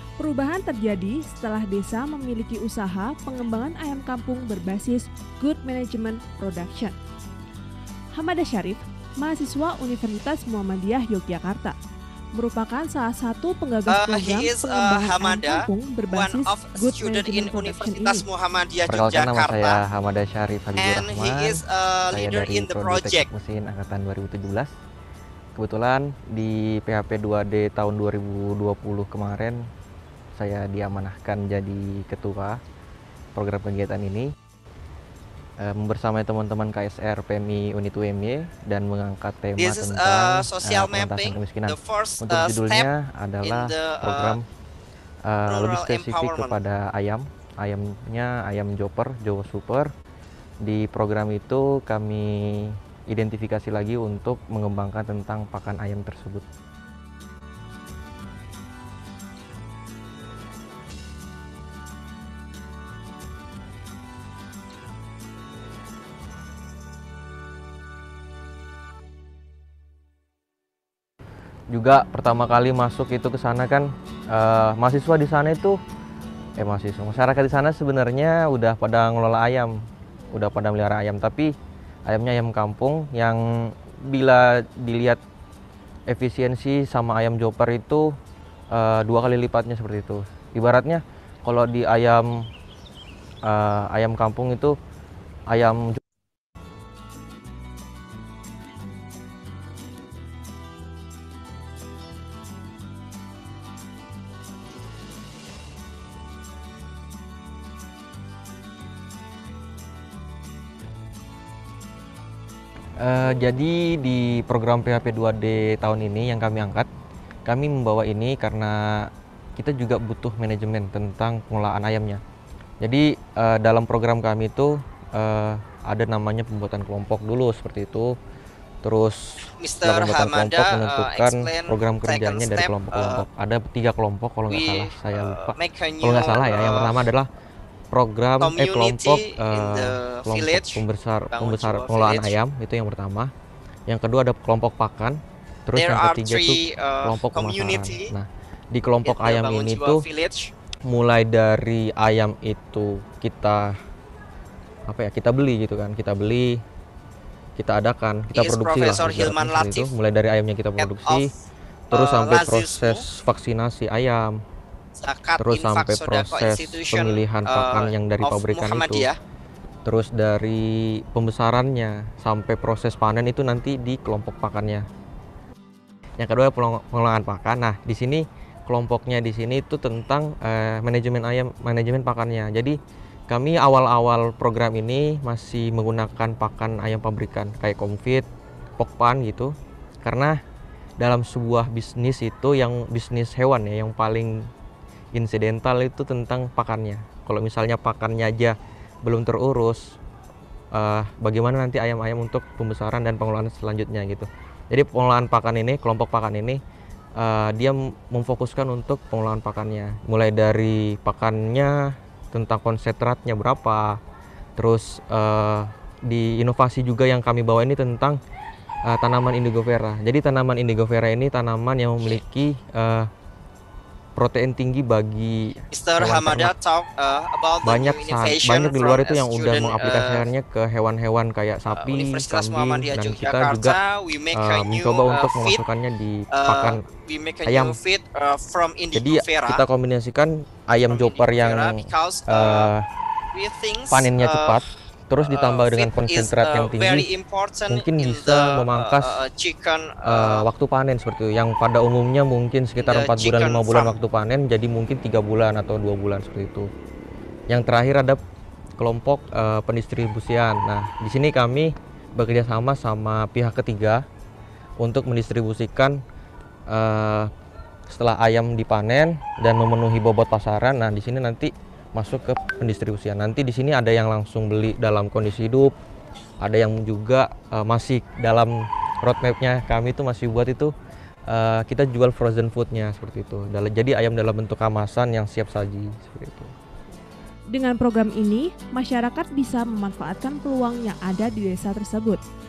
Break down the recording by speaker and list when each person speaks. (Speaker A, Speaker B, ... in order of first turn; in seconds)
Speaker A: 0.2-6.9, 8.1-11.8, 12.3-18.2, 287.5-292.2
Speaker B: 13.9-19.8, 20.8-23.3, 39.6-42.9, 43.4-44.4, 45.5-46.6, 129.6-133.2, 134.5-137.1, 138.4-142.3, 145.7-148.1, 149.0-150.5, 158.3-159.9, 160.8-161.3, 161.9-163.0, 165.0-169.2, 225.7-230.3, 231.7-235.6, 236.3-239.6, 240.9-242.7, 243.3-244.6, 245.2-250.4, 252.8-253.9
Speaker C: 18.9-24.7, 25.5-29.6, 30.4-32.6, 33.3-34.3, 35.6-44.4, 45.2-49.9, 50.6-56.5, 71.7-75.8, 76.6-79.7, 80.3-81.5, 82.1-85.2, 86.1-88.1, 88.7-92.3, 93.5-94.8, 95.5-96.0, 113.0-116.9, 117.5-122.2, 122.8-128.2, 128.8-129.2, 129.8-137.3, 137.9-143.3, 143.9-150.1, 150.9-153.7, 154.9-156.6, 157.6-161.3, 161.9-164.4, 165.4-169.1, 169.8-174.8, 176.2-182.8, 183.3-188.3, 188.8-190.4, 191.0-194.4, 195.1-199.9, 200.7-206.6, 207.2-214.0, 214.6-218.2, 218.8-223.1, 224.2-226.5, 227.6-233.8, 234.3-236.9, 237.4-237.8, 238.9-242.8, 243.9-247.1, 247.7-249.2, 250.0-256.7, 257.5-258.2, 258.8-264.0, 264.8-266.0, 266.7-267.3, 267.9-275.7, 276.4-280.7, 281.3-286.5